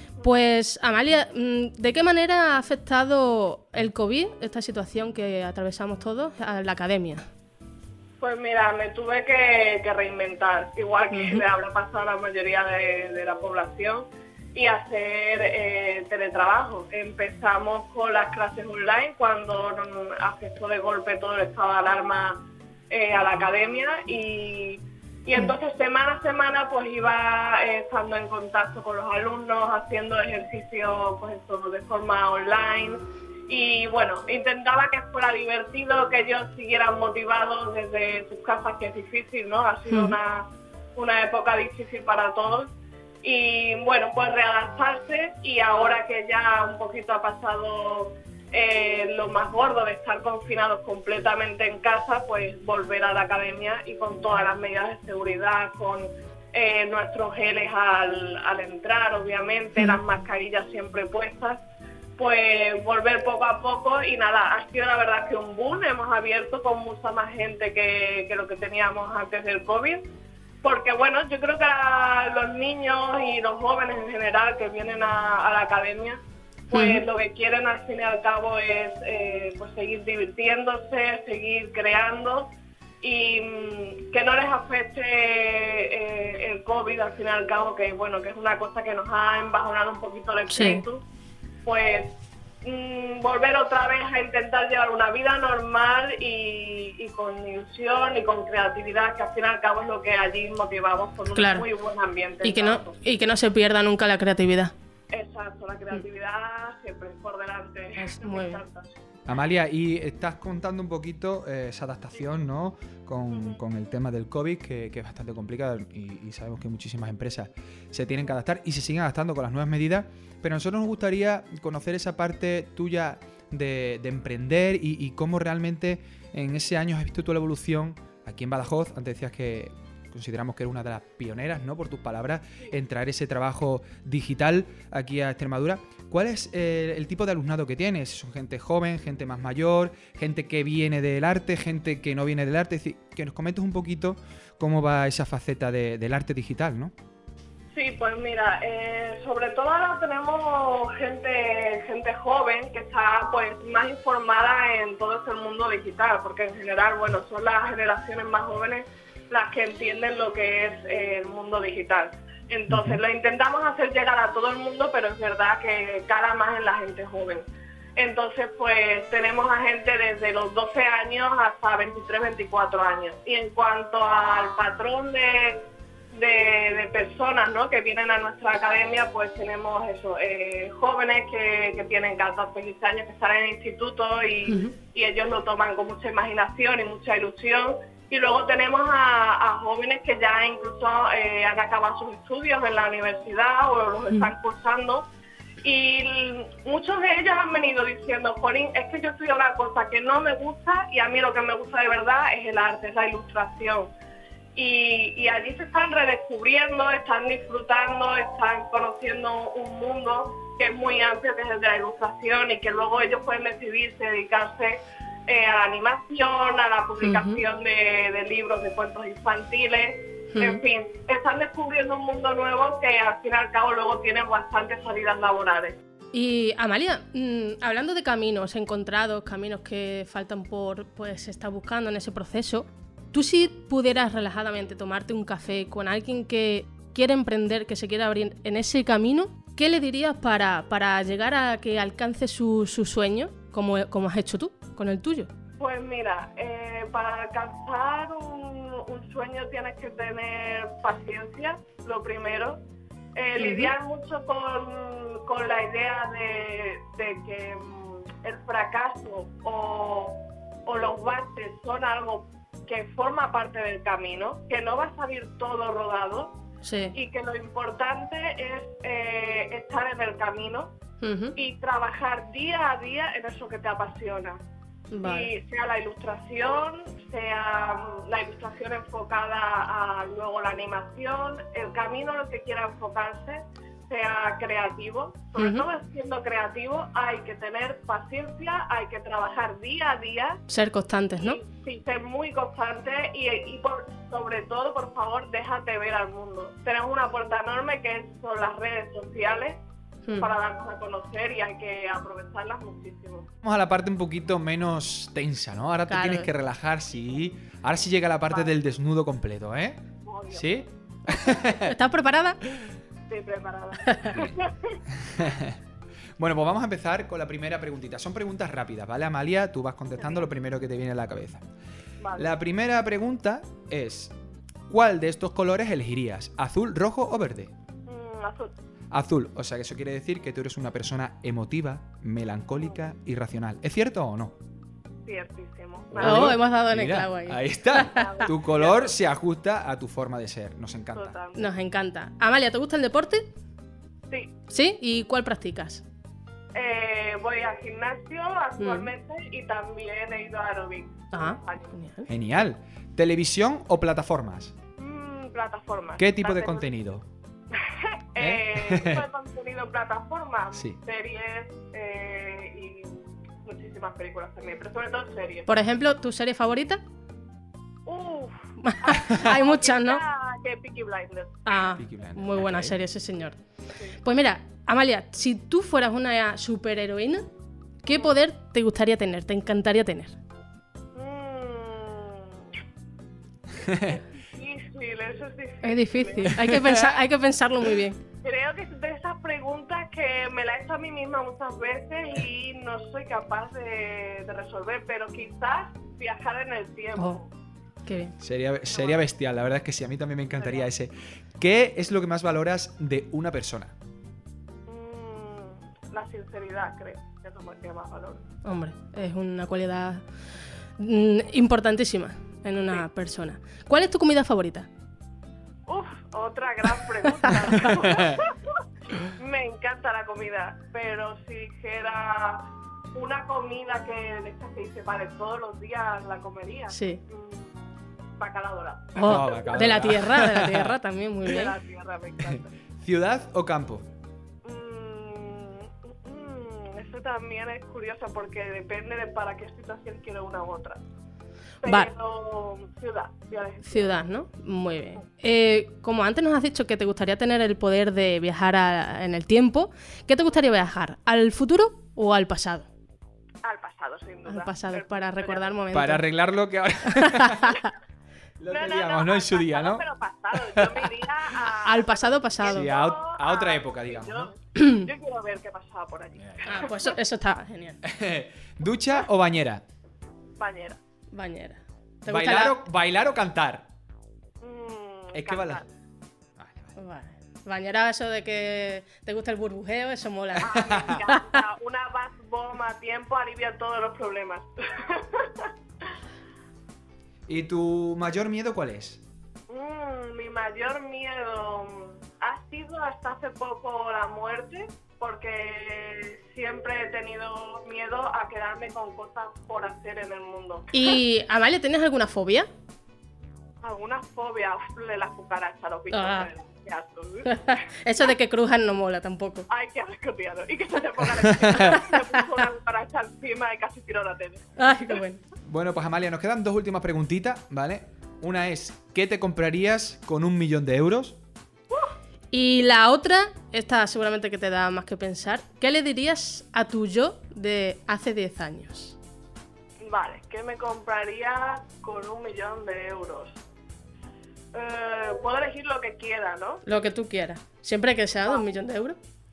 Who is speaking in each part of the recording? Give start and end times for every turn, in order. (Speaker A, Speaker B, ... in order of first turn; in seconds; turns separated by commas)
Speaker A: 0.2-7.2, Speaker B: 8.2-42.7, Speaker A: 11.1-11.4, Speaker A: 39.9-40.1, Speaker B: 43.2-61.6, Speaker B: 62.2-70.0, Speaker B: 70.6-82.5, Speaker A: 76.7-77.0, Speaker B: 83.0-91.0, Speaker A: 90.5-90.8, Speaker B: 91.6-103.0, Speaker A: 101.3-101.7, Speaker A: 102.4-104.7, Speaker B: 105.1-108.9, Speaker A: 108.0-108.6, Speaker C: 109.3-146.9, Speaker B: 113.3-113.6, Speaker B: 147.7-167.4, Speaker C: 162.7-163.0, Speaker B: 168.0-195.1, Speaker A: 184.5-184.7, Speaker B: 195.6-203.9, Speaker B: 204.6-225.8, Speaker A: 217.0-217.4, Speaker A: 220.3-220.6, Speaker A: 226.1-245.3, Speaker B: 245.6-252.6, Speaker B: 253.1-266.3, Speaker A: 253.4-253.7, Speaker A: 266.6-266.9, Speaker B: 266.9-270.7, Speaker A: 271.0-271.3, Speaker B: 271.4-274.4, Speaker A: 274.9-275.3, Speaker B: 275.0-290.4, Speaker A: 285.4-285.6, Speaker A: 290.5-291.4, Speaker B: 291.2-299.6, Speaker B: 300.1-303.3, Speaker C: 303.4-311.7, Speaker A: 305.9-306.3, Speaker B: 310.0-310.7, Speaker A: 311.4-312.4, Speaker B: 313.1-314.8, Speaker A: 313.9-314.2, Speaker C: 315.1-315.6, Speaker C: 316.2-321.4, Speaker B: 322.0-322.3, Speaker C: 322.1-324.1, Speaker C: 324.7-327.5, Speaker B: 327.9-328.5, Speaker C: 328.9-334.3, Speaker B: 335.1-336.4, Speaker C: 335.9-341.2, Speaker A: 336.0-338.0, Speaker B: 337.8-338.9, Speaker B: 340.9-341.5, Speaker A: 341.4-343.2, Speaker A: 344.5-345.8, Speaker B: 346.5-351.7, Speaker A: 348.6-348.9, Speaker A: 351.1-352.1, Speaker C: 352.1-354.5, Speaker B: 354.8-356.7, Speaker C: 356.0-357.1, Speaker B: 357.5-365.5, Speaker C: 358.2-359.0, Speaker C: 360.5-360.8, Speaker A: 365.5-366.8, Speaker B: 367.9-371.5, Speaker A: 368.6-370.0, Speaker A: 371.4-373.4, Speaker C: 371.8-372.8, Speaker A: 374.0-377.2, Speaker A: 377.8-380.2, Speaker B: 377.9-378.1, Speaker B: 380.9-382.4, Speaker B: 383.6-386.5, Speaker C: 383.7-383.9, Speaker A: 385.6-388.0, Speaker B: 388.2-397.3, Speaker A: 397.9-398.1, Speaker C: 398.2-403.7, Speaker B: 398.7-399.0, Speaker B: 400.4-400.7, Speaker B: 404.6-408.2, Speaker A: 408.4-410.0, Speaker A: 410.8-414.7, Speaker B: 415.7-418.5, Speaker A: 417.2-417.7, Speaker C: 417.8-418.1, Speaker B: 419.1-429.9, Speaker A: 426.7-427.0, Speaker A: 429.0-431.5, Speaker C: 429.0-430.8, Speaker B: 431.2-432.5, Speaker C: 432.3-433.9, Speaker B: 434.4-440.8, Speaker B: 441.6-444.0, Speaker A: 441.6-441.9, Speaker A: 443.6-452.7, Speaker B: 453.4-455.5, Speaker A: 454.3-456.0, Speaker C: 455.7-457.5, Speaker A: 457.0-457.7, Speaker C: 458.4-460.9, Speaker B: 458.5-466.9, Speaker A: 461.6-462.7, Speaker C: 462.4-464.3, Speaker A: 464.6-464.8, Speaker A: 466.4-467.8, Speaker C: 467.8-469.6, Speaker B: 470.4-470.8, Speaker A: 471.1-472.6, Speaker C: 472.1-473.7, Speaker B: 474.4-475.7, Speaker C: 475.1-475.6, Speaker C: 476.4-476.7, Speaker A: 476.8-481.4, Speaker B: 480.4-485.5, Speaker C: 480.5-480.9, Speaker C: 487.3-489.0, Speaker B: 489.5-500.9, Speaker A: 500.7-502.5, Speaker B: 503.6-507.6, Speaker A: 505.9-506.3, Speaker A: 507.2-509.4, Speaker B: 509.5-514.6, Speaker C: 511.3-511.8, Speaker A: 511.7-512.0, Speaker A: 514.6-515.2, Speaker C: 515.5-521.2, Speaker A: 522.3-529.0, Speaker B: 529.8-533.4, Speaker B: 534.5-536.6, Speaker A: 536.6-539.0